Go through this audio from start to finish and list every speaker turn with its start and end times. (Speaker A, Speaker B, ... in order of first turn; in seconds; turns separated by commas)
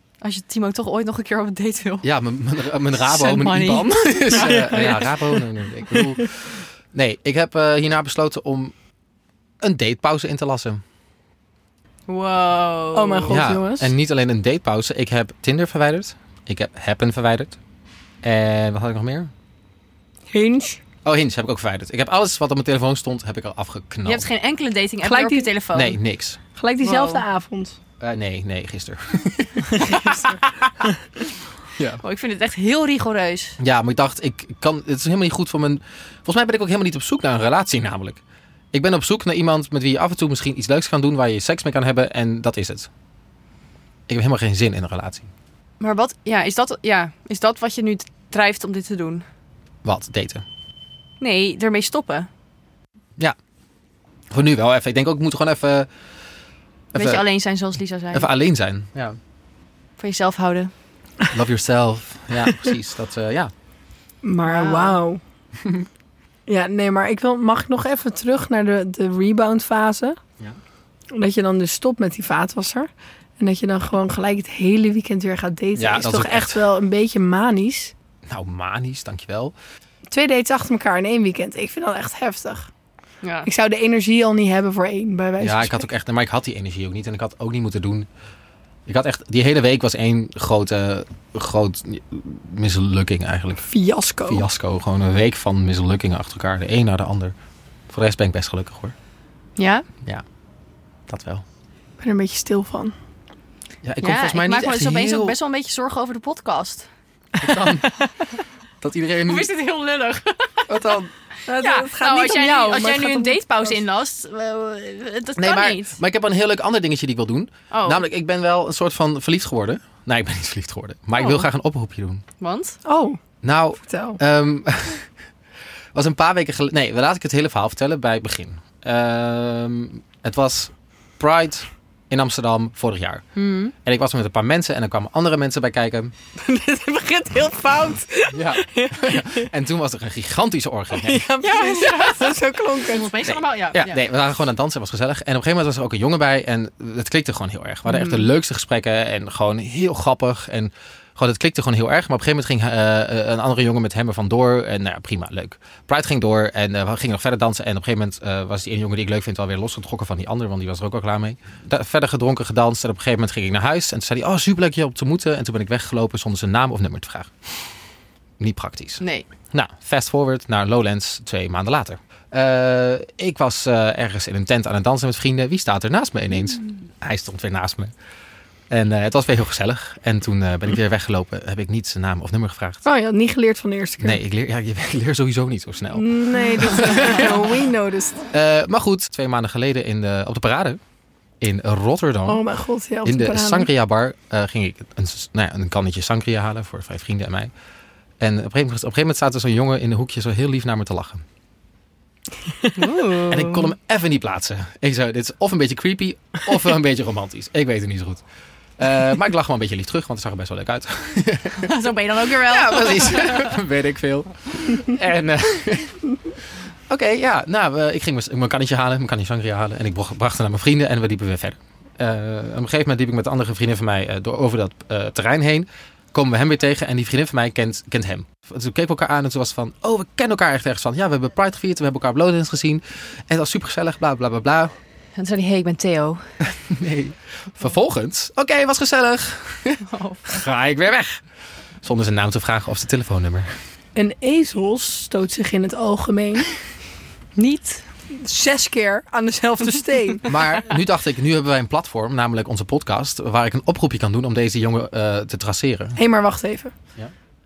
Speaker A: 0.2-2.1, Speaker B: 2.0-8.7, Speaker A: 2.9-4.9, Speaker C: 4.4-5.0, Speaker B: 9.6-10.8, Speaker A: 12.1-13.3, Speaker C: 12.9-13.9, Speaker B: 13.3-17.6, Speaker B: 18.2-19.3, Speaker C: 20.3-20.8, Speaker B: 21.0-24.3, Speaker A: 24.0-26.0, Speaker C: 25.0-25.5, Speaker B: 25.7-26.4, Speaker C: 26.5-27.8, Speaker A: 26.8-27.2, Speaker B: 28.0-29.9, Speaker A: 29.8-30.4, Speaker B: 31.8-32.0, Speaker A: 32.0-33.6, Speaker B: 33.6-38.2, Speaker B: 38.7-42.9, Speaker B: 44.1-45.3, Speaker A: 45.8-49.2, Speaker B: 49.8-50.4, Speaker A: 51.2-52.3, Speaker B: 54.3-55.9, Speaker B: 56.9-57.2, Speaker A: 56.9-58.3, Speaker B: 58.1-59.2, Speaker A: 60.0-60.7, Speaker B: 61.3-63.5, Speaker C: 64.2-65.2, Speaker A: 64.4-65.0, Speaker C: 66.5-70.2, Speaker C: 71.1-77.9, Speaker B: 75.8-76.6, Speaker B: 78.3-79.5, Speaker C: 80.1-82.7, Speaker A: 83.2-83.5, Speaker C: 83.4-85.8, Speaker B: 85.4-88.1, Speaker B: 88.8-93.7, Speaker C: 93.7-94.4, Speaker B: 94.2-97.3, Speaker B: 97.9-98.9, Speaker A: 99.6-99.8, Speaker B: 101.1-101.4, Speaker C: 102.0-102.9, Speaker B: 103.8-105.3, Speaker A: 104.0-106.9, Speaker B: 107.4-108.0, Speaker B: 108.8-109.5, Speaker A: 109.2-111.0, Speaker B: 110.7-111.1, Speaker C: 111.5-113.8, Speaker A: 111.5-116.0, Speaker B: 115.4-122.2, Speaker A: 117.7-118.0, Speaker A: 121.1-121.5, Speaker A: 122.4-122.8, Speaker C: 122.8-123.2, Speaker B: 123.4-125.1, Speaker C: 123.8-124.2, Speaker B: 125.9-133.2, Speaker A: 133.3-133.7, Speaker B: 133.8-136.1, Speaker C: 136.3-139.4, Speaker B: 138.3-141.3, Speaker C: 141.0-143.2, Speaker A: 141.4-144.0, Speaker B: 143.2-167.7, Speaker A: 147.9-148.3, Speaker B: 168.4-177.9, Speaker A: 169.0-169.3, Speaker B: 178.7-182.8, Speaker C: 182.8-184.2, Speaker B: 184.0-187.4, Speaker C: 185.9-188.3, Speaker B: 188.3-190.8, Speaker B: 191.4-192.4, Speaker C: 192.2-193.7, Speaker B: 193.0-197.5, Speaker B: 198.2-201.2, Speaker A: 202.7-203.7, Speaker B: 203.3-208.2, Speaker B: 208.8-215.9, Speaker A: 211.6-213.5, Speaker B: 216.9-234.7, Speaker A: 235.2-236.2, Speaker B: 236.4-241.2, Speaker A: 239.8-240.2, Speaker B: 241.8-243.5, Speaker C: 243.9-246.5, Speaker A: 247.4-247.8, Speaker C: 248.1-250.3, Speaker B: 250.3-256.0, Speaker C: 255.9-256.7